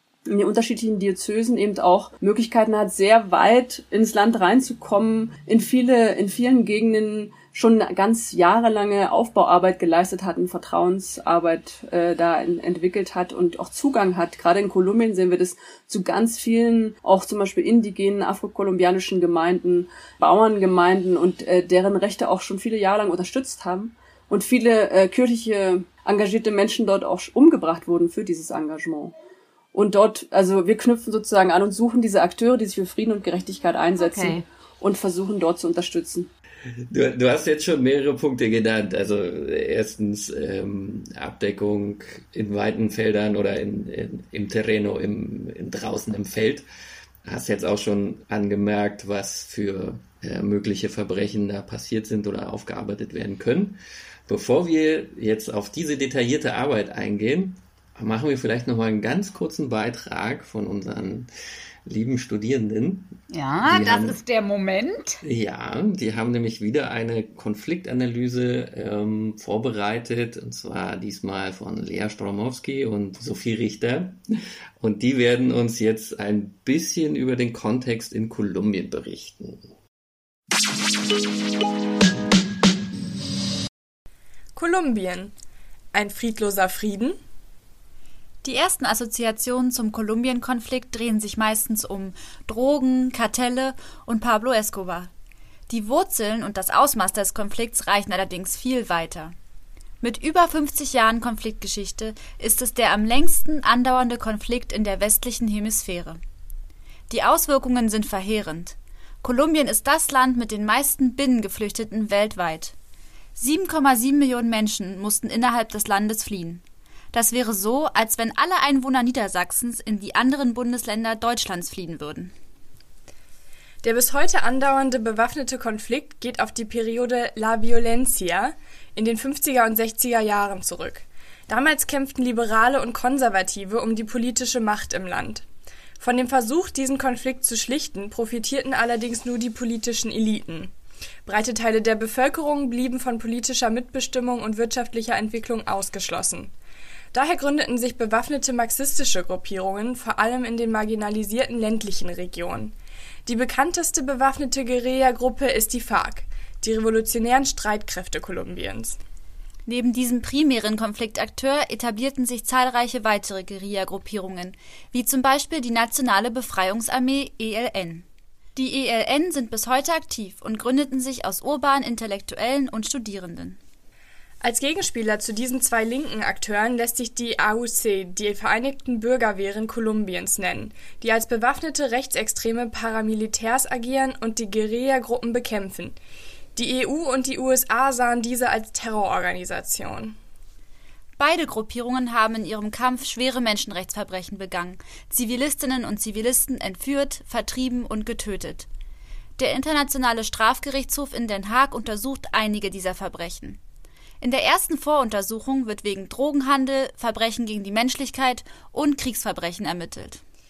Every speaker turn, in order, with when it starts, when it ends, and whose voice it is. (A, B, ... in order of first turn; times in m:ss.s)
0:00.3-0:29.2 A
0:29.7-0:36.3 A
0:34.0-0:34.4 B
0:36.9-0:46.6 C
0:47.2-1:01.3 C
1:01.8-1:04.2 C
1:03.3-1:05.2 B
1:05.2-1:14.2 C
1:14.8-1:19.7 C
1:24.6-1:25.3 D
1:25.9-1:27.2 D
1:28.4-1:35.1 E
1:35.7-1:39.3 E
1:40.0-1:46.2 E
1:47.1-1:52.7 E
1:53.4-1:56.6 E
1:57.1-2:02.3 E
2:03.8-2:15.4 D
2:16.0-2:20.7 D
2:21.2-2:26.5 D
2:27.1-2:32.7 D
2:33.2-2:39.0 D
2:39.7-2:48.0 E
2:48.6-2:53.6 E
2:54.4-3:06.0 D
3:06.6-3:10.2 D
3:11.2-3:18.7 E
3:19.4-3:23.6 E
3:24.2-3:30.2 E